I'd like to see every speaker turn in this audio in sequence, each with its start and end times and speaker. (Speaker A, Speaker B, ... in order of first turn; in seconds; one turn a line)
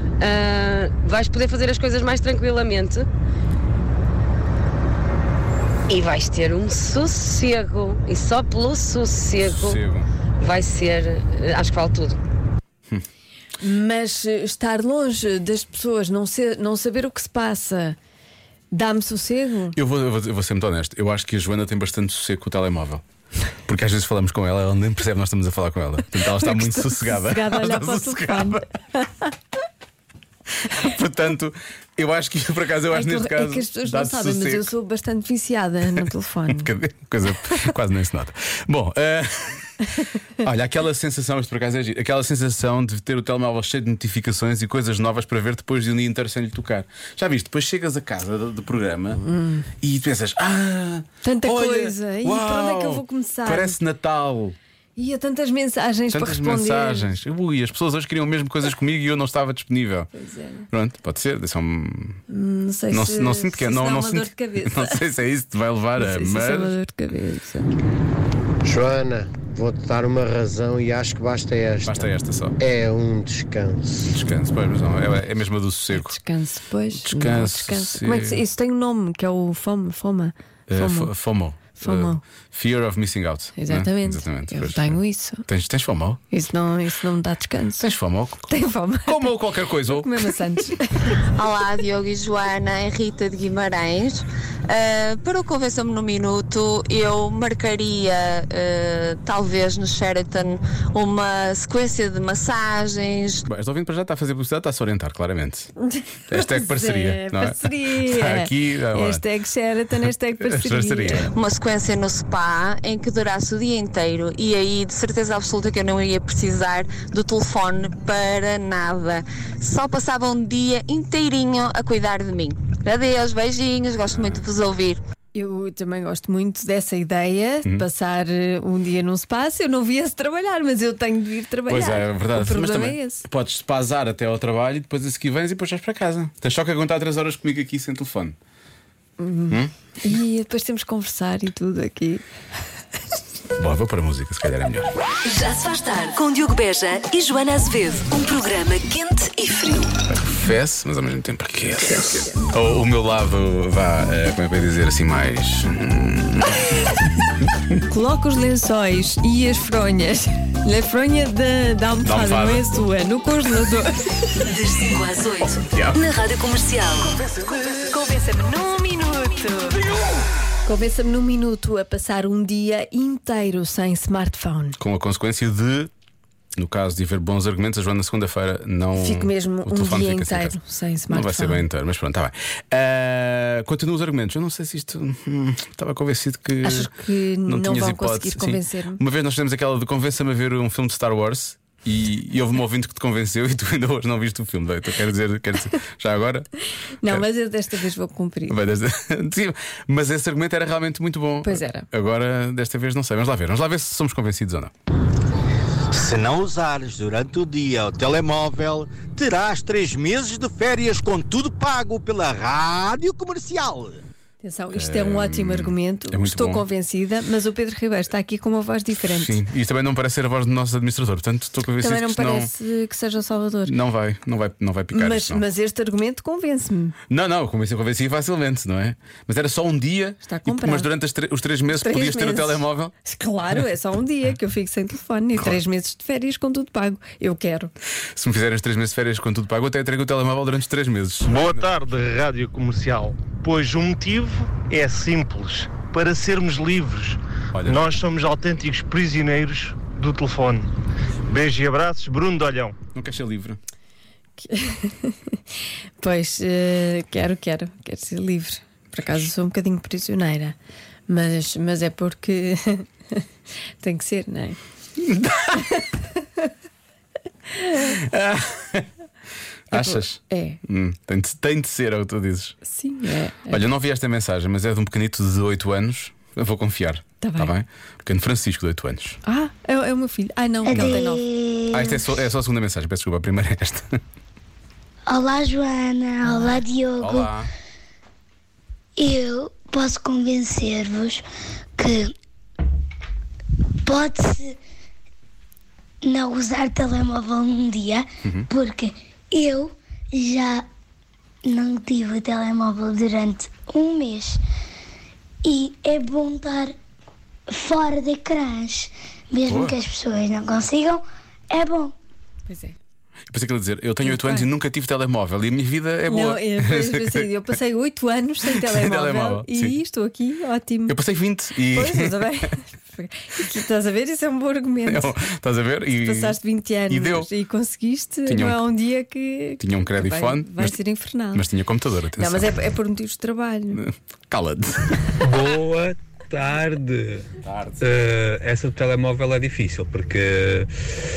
Speaker A: 0.2-3.1
Speaker A: 5.9-9.8
Speaker B: 9.4-10.1
Speaker A: 10.4-12.2
Speaker C: 13.6-17.9
Speaker C: 18.7-19.8
Speaker B: 19.7-23.0
Speaker B: 23.6-28.6
Speaker C: 26.2-29.3
Speaker B: 30.6-34.7
Speaker C: 32.9-36.7
Speaker B: 35.9-39.7
Speaker B: 40.4-49.2
Speaker C: 49.2-49.6
Speaker B: 49.8-54.5
Speaker C: 51.2-53.8
Speaker C: 55.0-57.1
Speaker B: 56.1-60.1
Speaker C: 60.1-60.7
Speaker B: 60.7-62.2
Speaker C: 62.3-65.0
Speaker B: 62.9-66.8
Speaker C: 66.0-67.7
Speaker D: 68.6-72.0
Speaker B: 71.8-72.6
Speaker D: 72.6-74.1
Speaker B: 74.0-76.2
Speaker C: 75.9-81.2
Speaker B: 76.9-78.4
Speaker B: 80.7-86.2
Speaker C: 81.8-82.2
Speaker C: 83.6-85.4
Speaker C: 86.3-87.8
Speaker B: 87.8-88.5
Speaker C: 88.5-91.2
Speaker B: 89.0-90.3
Speaker E: 91.3-103.4
Speaker B: 103.5-105.7
Speaker C: 105.8-111.3
Speaker B: 106.3-109.3
Speaker B: 110.4-111.3
Speaker E: 111.3-125.0
Speaker B: 124.1-124.4
Speaker C: 125.3-133.2
Speaker B: 131.7-138.3
Speaker C: 139.2-142.2
Speaker B: 143.6-144.9
Speaker F: 145.3-149.9
Speaker B: 150.1-156.6
Speaker C: 151.8-152.4
Speaker C: 157.9-164.0
Speaker B: 162.0-162.6
Speaker F: 164.5-167.1
Speaker B: 165.7-166.0
Speaker C: 167.6-169.8
Speaker C: 170.6-174.8
Speaker B: 174.8-175.9
Speaker B: 176.6-180.6
Speaker C: 178.9-181.6
Speaker B: 181.1-186.9
Speaker C: 186.6-189.0
Speaker B: 187.4-196.5
Speaker C: 197.0-198.6
Speaker B: 198.5-204.7
Speaker C: 201.4-201.9
Speaker G: 205.9-214.0
Speaker C: 214.4-219.4
Speaker B: 214.7-216.6
Speaker B: 219.1-222.5
Speaker C: 221.8-223.7
Speaker B: 223.7-225.4
Speaker C: 224.9-226.9
Speaker B: 227.1-232.9
Speaker C: 230.2-230.9
Speaker C: 231.7-237.7
Speaker B: 238.2-241.7
Speaker H: 241.3-250.6
Speaker B: 247.5-247.9
Speaker H: 251.3-252.7
Speaker B: 252.9-253.6
Speaker C: 254.4-255.4
Speaker C: 256.0-260.6
Speaker C: 261.1-263.2
Speaker C: 263.8-264.6
Speaker B: 265.1-265.7
Speaker B: 267.8-268.9
Speaker B: 269.7-272.6
Speaker C: 269.7-270.6
Speaker C: 272.6-273.6
Speaker B: 273.5-279.2
Speaker C: 277.2-277.5
Speaker C: 279.2-281.2
Speaker I: 280.6-282.0
Speaker B: 280.7-281.1
Speaker B: 281.7-283.9
Speaker I: 285.1-287.3
Speaker B: 287.0-287.5
Speaker I: 289.0-291.2
Speaker I: 291.8-292.1
Speaker I: 293.9-294.6
Speaker I: 296.0-300.6
Speaker B: 298.2-298.5
Speaker I: 301.4-304.4
Speaker I: 305.4-306.7
Speaker I: 307.5-311.9
Speaker B: 309.4-309.8
Speaker C: 312.5-312.8
Speaker B: 313.3-317.3
Speaker C: 314.0-314.5
Speaker C: 316.1-320.9
Speaker B: 318.4-319.8
Speaker B: 320.9-322.5
Speaker C: 321.7-325.2
Speaker B: 324.9-327.3
Speaker C: 325.9-331.4
Speaker B: 328.3-328.6
Speaker B: 329.6-330.8
Speaker B: 331.3-332.6
Speaker C: 332.2-333.8
Speaker B: 333.7-335.1
Speaker J: 335.2-337.3
Speaker B: 337.4-337.8
Speaker J: 337.8-340.7